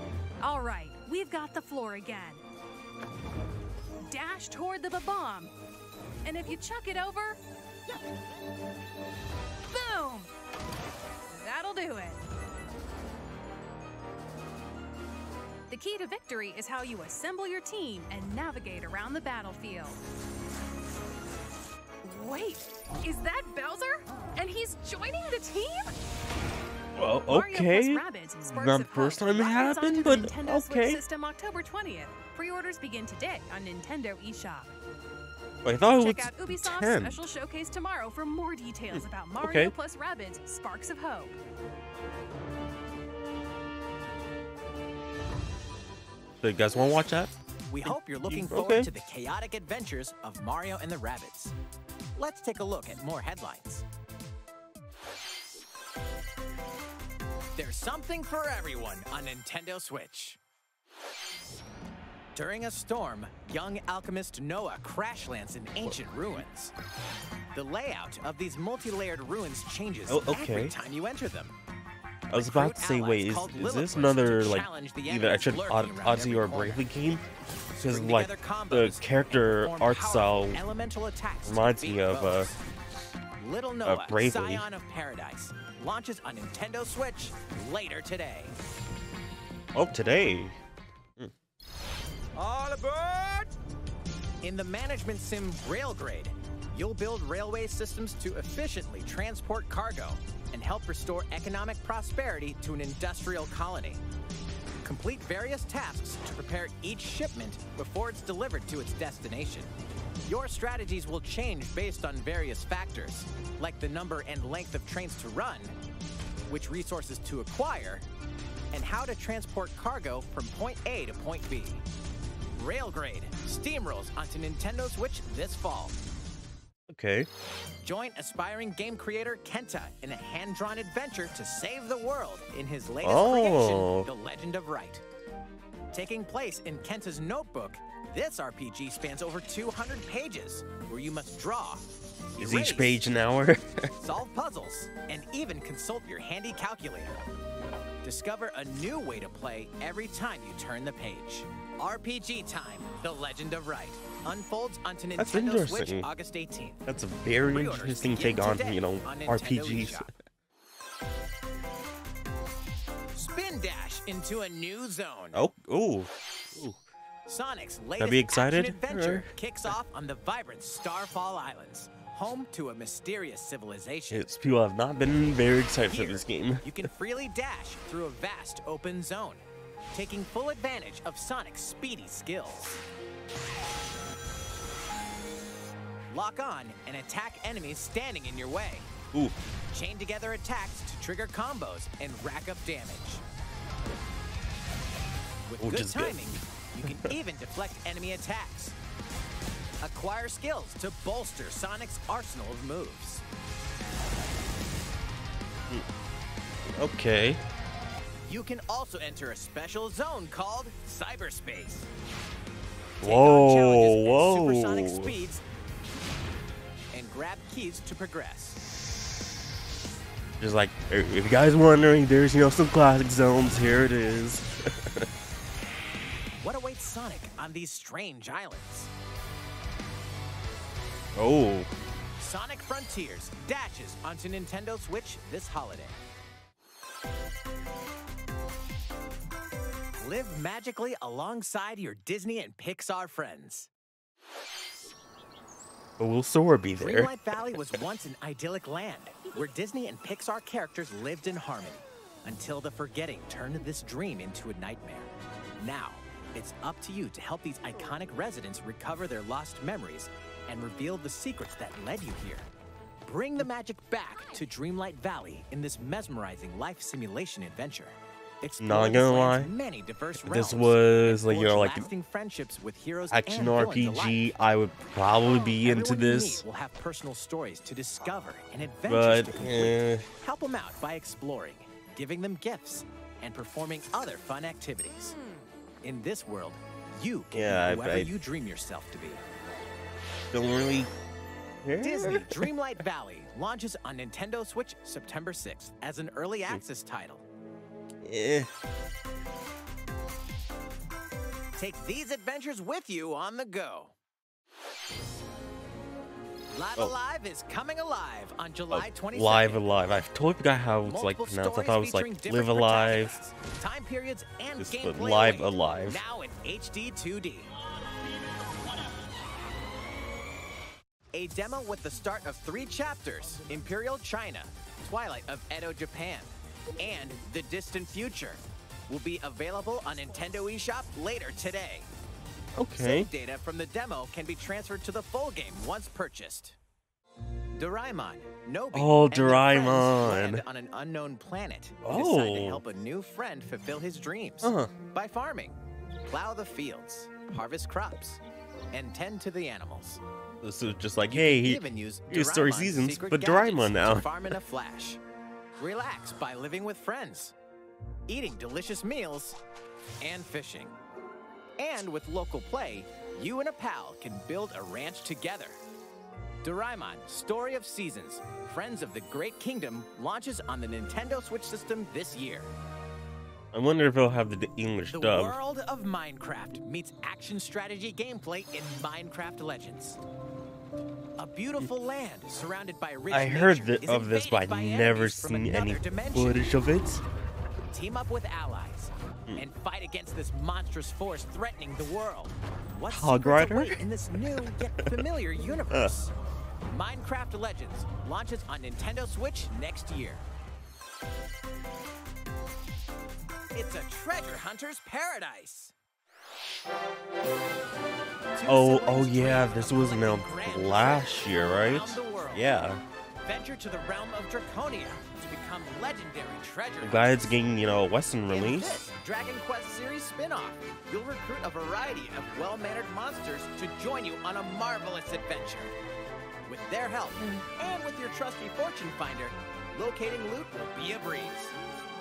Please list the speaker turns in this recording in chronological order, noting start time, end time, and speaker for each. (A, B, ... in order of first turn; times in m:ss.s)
0:00.4-0:02.4 A
0:04.1-0:05.5 A
0:06.2-0:07.4 A
0:09.7-0:10.3 A
0:11.3-0:12.2 A
0:15.7-0:20.0 A
0:22.0-0:26.0 A
0:27.0-0:31.0 B
0:27.3-0:34.7 A
0:35.6-0:37.2 B
0:35.8-0:41.4 A
0:38.9-0:39.7 B
0:46.4-0:47.3 B
0:47.7-0:51.6 C
0:47.8-0:48.9 B
0:52.2-0:53.8 C
0:57.6-1:00.4 C
1:02.4-1:06.7 C
1:05.8-1:06.4 B
1:07.5-1:11.6 C
1:10.1-1:10.8 B
1:12.3-1:17.2 B
1:12.3-1:16.9 C
1:17.7-1:22.6 C
1:17.8-1:20.6 B
1:21.5-1:22.5 B
1:23.4-1:28.6 C
1:23.8-1:24.7 B
1:29.7-1:30.6 B
1:32.4-1:33.5 C
1:34.4-1:44.0 C
1:44.8-1:49.7 C
1:50.3-1:55.8 C
1:56.5-1:58.1 C
1:58.7-2:01.8 C
2:02.5-2:06.0 C
2:06.9-2:07.3 B
2:07.8-2:15.0 C
2:13.0-2:14.1 B
2:15.9-2:23.0 C
2:22.4-2:23.9 B
2:24.0-2:27.2 C
2:28.0-2:36.8 C
2:35.2-2:36.1 B
2:36.9-2:40.1 B
2:37.5-2:40.1 C
2:43.2-2:45.4 C
2:45.3-2:46.8 B
2:47.3-2:54.3 C
2:48.0-2:49.3 B
2:54.1-2:56.8 B
2:55.9-3:02.8 C
3:06.1-3:08.9 C
3:09.7-3:13.2 C
3:15.5-3:18.8 C
3:15.6-3:16.3 B
3:19.8-3:23.2 C
3:26.8-3:27.4 B
3:28.3-3:31.9 C
3:33.0-3:35.2 B
3:33.0-3:35.4 C
3:36.9-3:38.6 C
3:40.4-3:45.1 B
3:46.4-3:48.9 C
3:51.2-3:51.7 B
3:52.2-3:56.0 C
4:00.0-4:03.7 C
4:06.0-4:07.1 B
4:06.8-4:22.5 C
4:23.0-4:34.2 C
4:28.6-4:29.5 B
4:30.2-4:31.9 B
4:33.1-4:36.4 B
4:35.6-4:45.2 C
4:38.9-4:40.1 B
4:45.8-4:49.2 C
4:47.3-4:48.1 B
4:50.3-4:50.9 B
4:51.6-4:52.5 B
4:51.8-4:57.3 C
4:58.0-4:58.5 B
5:01.6-5:04.0 C
5:06.5-5:09.7 C
5:08.7-5:13.2 B
5:10.8-5:17.5 C
5:14.6-5:16.0 B
5:21.1-5:31.9 C
5:32.6-5:33.1 B
5:32.8-5:36.6 C
5:37.6-5:48.2 C
5:38.7-5:40.4 B
5:41.8-5:42.6 B
5:44.4-5:44.7 B
5:48.7-5:50.0 C
5:50.4-5:54.3 B
5:51.1-5:55.0 C
5:55.6-5:57.4 C
5:58.1-5:59.4 C
6:00.0-6:00.8 C
6:01.6-6:05.6 C
6:06.4-6:12.5 C
6:13.5-6:15.4 B
6:14.9-6:20.0 C
6:21.2-6:26.5 C
6:23.1-6:27.0 B
6:27.7-6:36.1 C
6:32.9-6:33.8 B
6:36.7-6:40.2 C
6:43.5-6:45.7 C
6:48.4-6:52.6 C
6:48.5-6:52.8 B
6:53.2-6:57.5 C
6:56.8-6:58.8 B
6:58.3-7:05.7 C
7:06.5-7:11.6 C